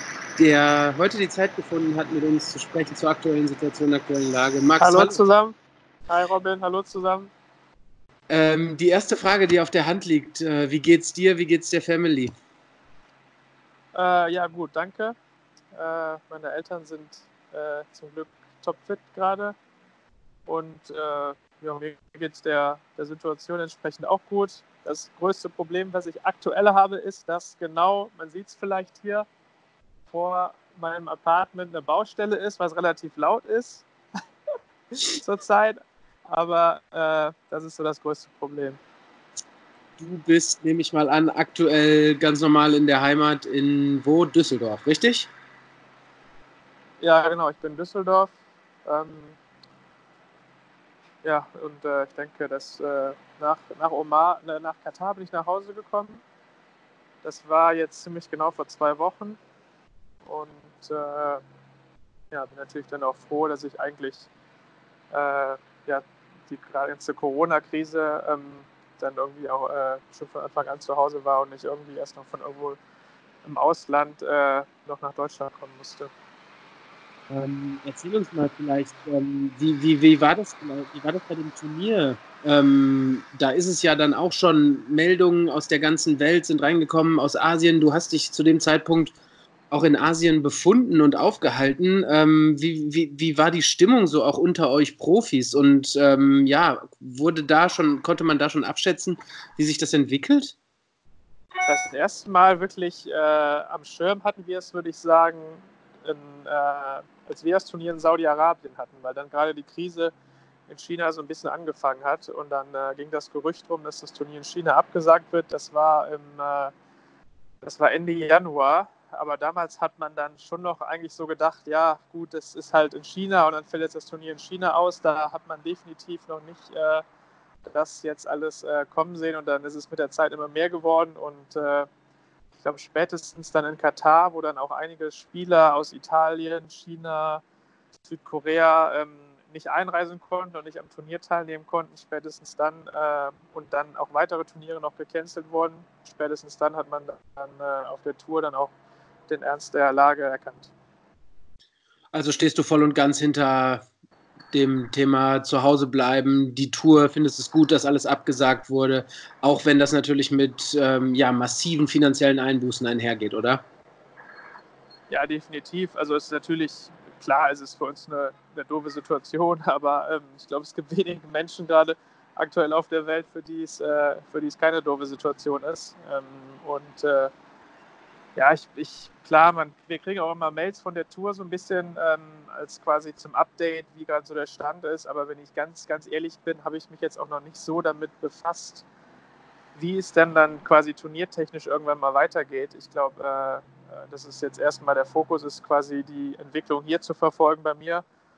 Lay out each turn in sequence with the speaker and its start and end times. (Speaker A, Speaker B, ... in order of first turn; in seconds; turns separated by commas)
Speaker A: 0.4-5.2, Speaker B: 4.8-5.5, Speaker B: 6.1-7.3, Speaker A: 8.3-12.3, Speaker B: 13.9-15.2, Speaker B: 15.7-19.5, Speaker B: 20.5-29.2, Speaker B: 30.1-33.8, Speaker B: 35.0-38.8, Speaker A: 40.0-45.3, Speaker B: 47.0-48.3, Speaker B: 48.9-49.4, Speaker B: 51.2-56.2, Speaker B: 57.2-59.4, Speaker B: 60.2-61.4, Speaker B: 62.3-64.3, Speaker B: 65.1-72.8, Speaker B: 73.4-76.1, Speaker A: 77.3-89.1, Speaker A: 89.7-100.5, Speaker B: 101.7-110.1, Speaker B: 110.7-116.7, Speaker B: 117.6-127.0, Speaker B: 127.6-131.9, Speaker B: 132.6-137.4, Speaker B: 138.0-148.7, Speaker B: 149.3-150.7, Speaker A: 152.1-153.8, Speaker A: 154.5-163.6, Speaker B: 165.1-177.3, Speaker B: 178.3-188.8, Speaker B: 189.8-198.0